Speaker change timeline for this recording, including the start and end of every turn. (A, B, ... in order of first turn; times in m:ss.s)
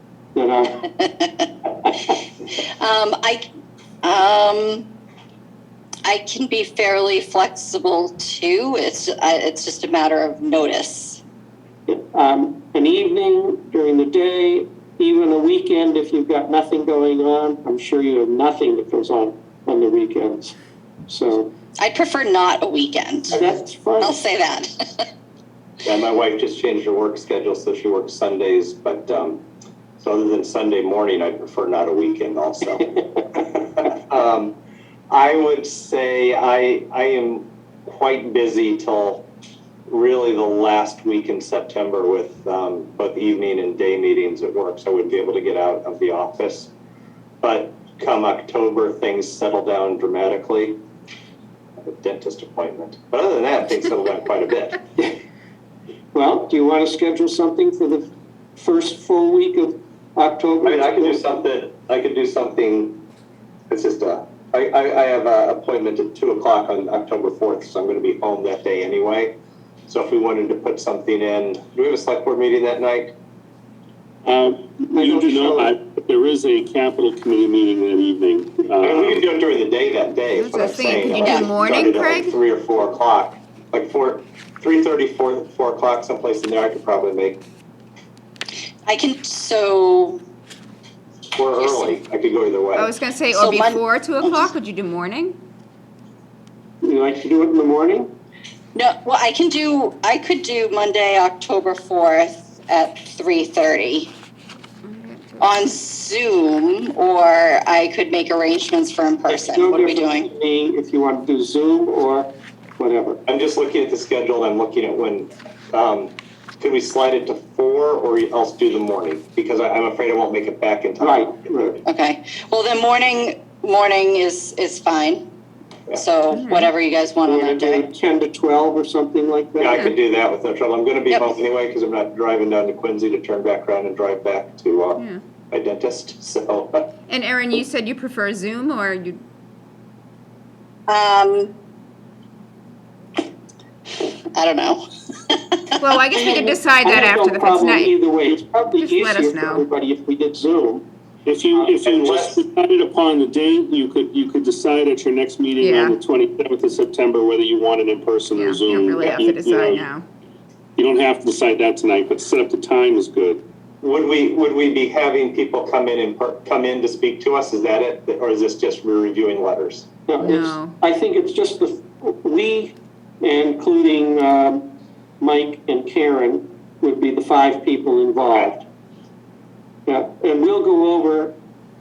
0:00.4-0:00.8 A
0:01.0-0:01.5 B
0:02.8-0:03.5 B
0:04.0-0:04.9 B
0:06.0-0:11.2 B
0:11.9-0:20.6 A
0:21.1-0:21.5 A
0:21.8-0:23.4 B
0:23.4-0:24.2 A
0:24.0-0:25.1 B
0:25.8-0:29.4 C
0:30.0-0:34.6 C
0:35.1-0:39.2 C
0:39.9-0:46.7 C
0:47.4-0:50.8 C
0:51.8-0:54.8 C
0:56.1-1:01.2 A
1:00.6-1:03.0 C
1:03.7-1:09.4 C
1:09.9-1:13.1 C
1:14.2-1:19.2 D
1:14.9-1:15.7 A
1:18.8-1:27.4 C
1:20.4-1:22.4 E
1:21.2-1:21.5 B
1:28.9-1:30.2 B
1:31.4-1:32.9 C
1:31.6-1:32.0 B
1:32.8-1:35.4 E
1:33.3-1:34.4 B
1:36.8-1:38.1 A
1:38.8-1:44.1 B
1:44.8-1:45.6 E
1:45.4-1:50.3 B
1:49.3-1:53.2 A
1:53.3-2:01.5 C
2:01.0-2:01.8 A
2:01.8-2:05.2 B
2:05.9-2:07.9 B
2:06.3-2:06.7 E
2:07.3-2:09.9 A
2:09.6-2:16.9 C
2:17.1-2:19.2 E
2:20.9-2:21.5 B
2:24.0-2:26.4 B
2:25.8-2:28.0 E
2:26.2-2:30.8 A
2:28.8-2:29.6 E
2:31.3-2:39.9 D
2:31.8-2:32.4 C
2:35.6-2:36.0 E
2:38.4-2:40.0 E
2:40.8-2:43.4 D
2:43.8-2:49.9 C
2:50.1-2:54.7 A
2:50.2-2:50.7 E
2:55.2-2:58.6 A
2:58.3-2:58.6 C
2:59.9-3:01.4 A